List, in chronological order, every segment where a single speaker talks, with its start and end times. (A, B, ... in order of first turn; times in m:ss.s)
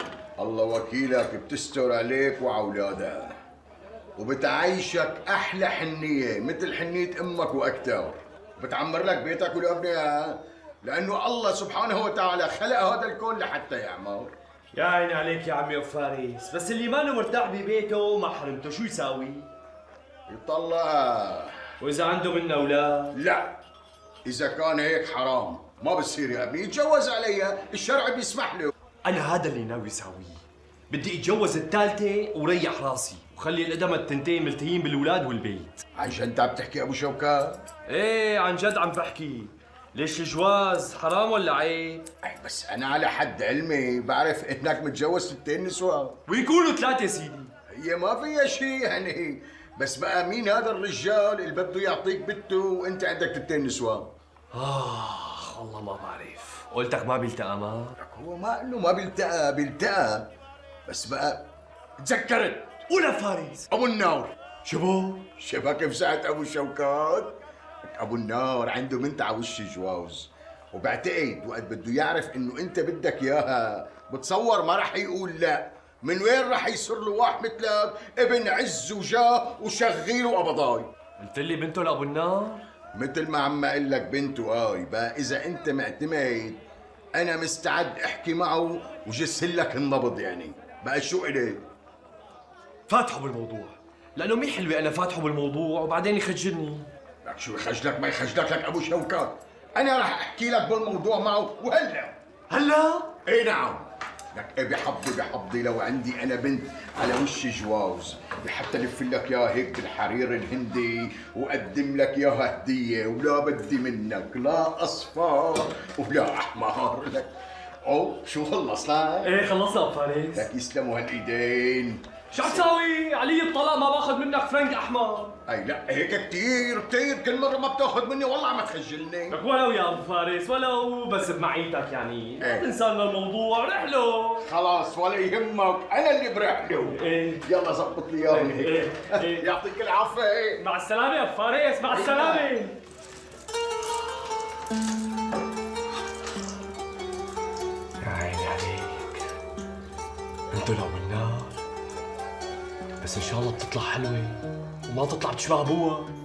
0:00.4-0:03.3 A
0:04.2-0:14.3 A
0:14.7-0:19.5 B
0:20.3-0:21.6 A
0:21.8-0:23.2 B
0:23.1-0:23.6 A
0:24.2-0:28.7 A
0:29.0-0:35.8 B
0:36.0-0:37.6 A
0:37.9-0:42.0 B
0:42.2-0:46.2 A
0:46.3-0:47.5 B
0:47.7-0:54.1 A
0:54.5-0:58.0 B
0:58.0-1:00.3 A
1:00.9-1:01.4 A
1:02.0-1:02.8 A
1:02.9-1:03.7 B
1:03.7-1:04.3 A
1:04.6-1:05.3 B
1:05.4-1:07.4 A
1:07.9-1:20.9 A
1:21.2-1:22.6 B
1:22.9-1:26.6 A
1:27.1-1:31.6 A
1:32.9-1:36.9 B
1:37.2-1:42.2 A
1:42.5-1:43.1 B
1:43.2-1:57.3 A
1:57.8-1:59.4 A
1:59.2-2:00.5 B
2:00.3-2:02.7 A
2:02.3-2:05.4 B
2:05.5-2:09.4 A
2:09.3-2:14.5 B
2:14.4-2:20.6 A
2:16.8-2:17.5 B
2:18.3-2:19.5 B
2:20.6-2:22.8 B
2:21.9-2:22.5 A
2:28.0-2:29.3 B
2:30.5-2:31.6 B
2:33.0-2:36.1 B